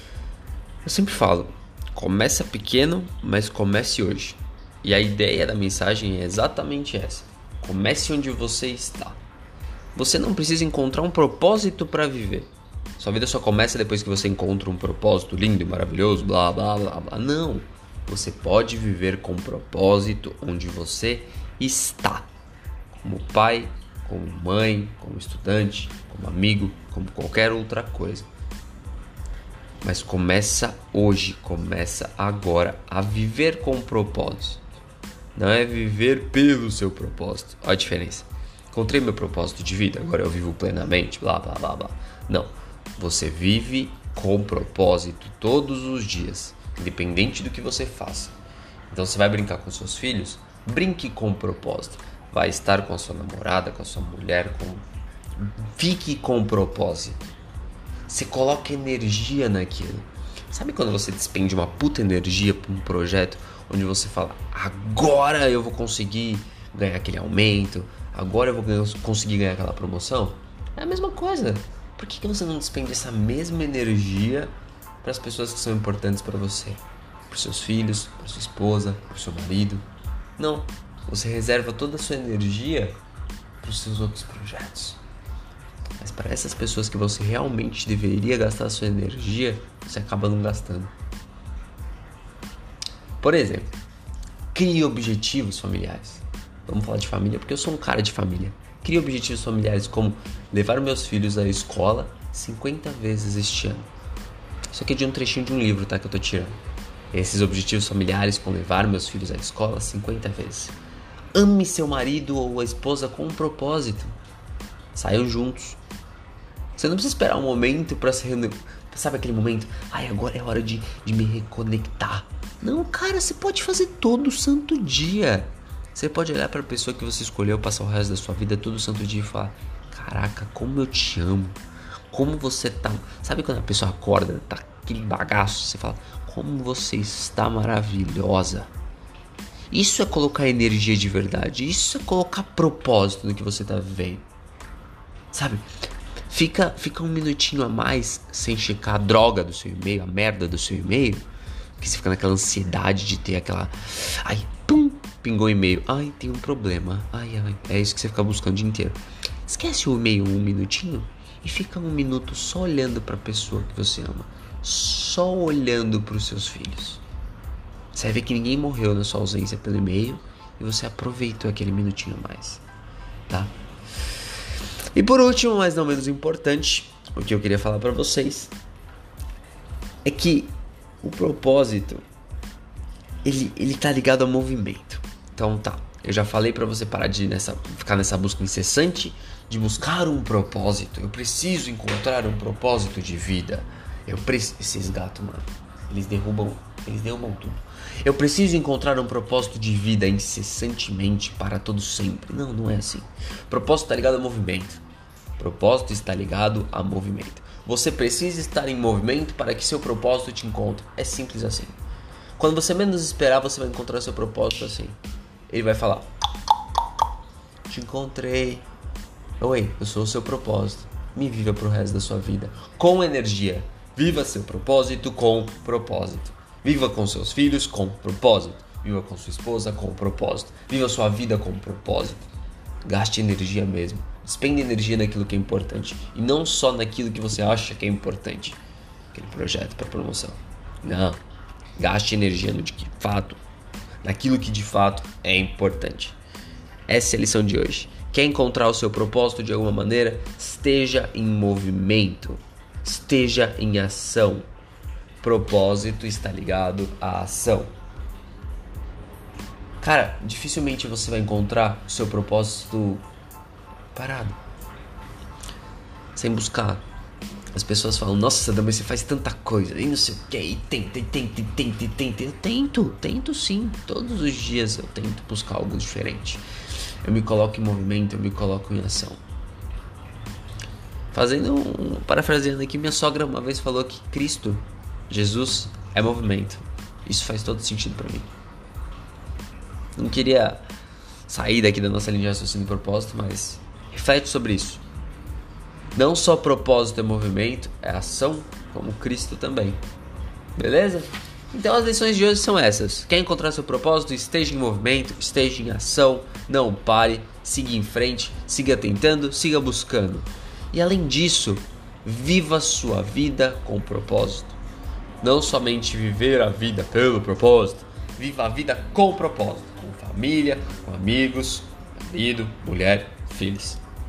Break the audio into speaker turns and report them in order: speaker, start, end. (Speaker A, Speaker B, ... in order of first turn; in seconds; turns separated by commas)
Speaker A: 0.8-9.2, Speaker A: 9.9-22.3, Speaker A: 22.9-28.3, Speaker A: 29.8-34.6, Speaker A: 35.4-48.4, Speaker A: 48.9-54.9, Speaker A: 55.4-57.3, Speaker A: 58.1-79.8, Speaker A: 80.4-83.0, Speaker A: 83.6-85.0, Speaker A: 86.0-90.9, Speaker A: 93.2-93.7, Speaker A: 94.5-103.9, Speaker A: 104.7-106.6, Speaker A: 107.1-110.8, Speaker A: 111.3-114.2, Speaker A: 114.9-115.8, Speaker A: 116.8-131.6, Speaker A: 132.1-138.7, Speaker A: 139.7-144.3, Speaker A: 145.3-145.7, Speaker A: 146.3-151.2, Speaker A: 151.8-167.0, Speaker A: 167.9-172.6, Speaker A: 173.3-173.5, Speaker A: 174.9-178.5, Speaker A: 180.1-182.0, Speaker A: 183.2-204.8, Speaker A: 205.4-211.8, Speaker A: 212.4-216.1, Speaker A: 217.7-218.7, Speaker A: 219.4-232.3, Speaker A: 232.8-238.6, Speaker A: 239.1-241.2, Speaker A: 241.8-243.4, Speaker A: 244.0-246.2, Speaker A: 246.9-254.5, Speaker A: 255.2-257.7, Speaker A: 259.8-263.1, Speaker A: 263.9-264.4, Speaker A: 266.1-266.8, Speaker A: 267.5-276.4, Speaker A: 277.0-279.2, Speaker A: 281.1-288.3, Speaker A: 290.0-290.6, Speaker A: 291.3-294.8, Speaker A: 295.9-299.8, Speaker A: 300.6-314.6, Speaker A: 315.2-323.8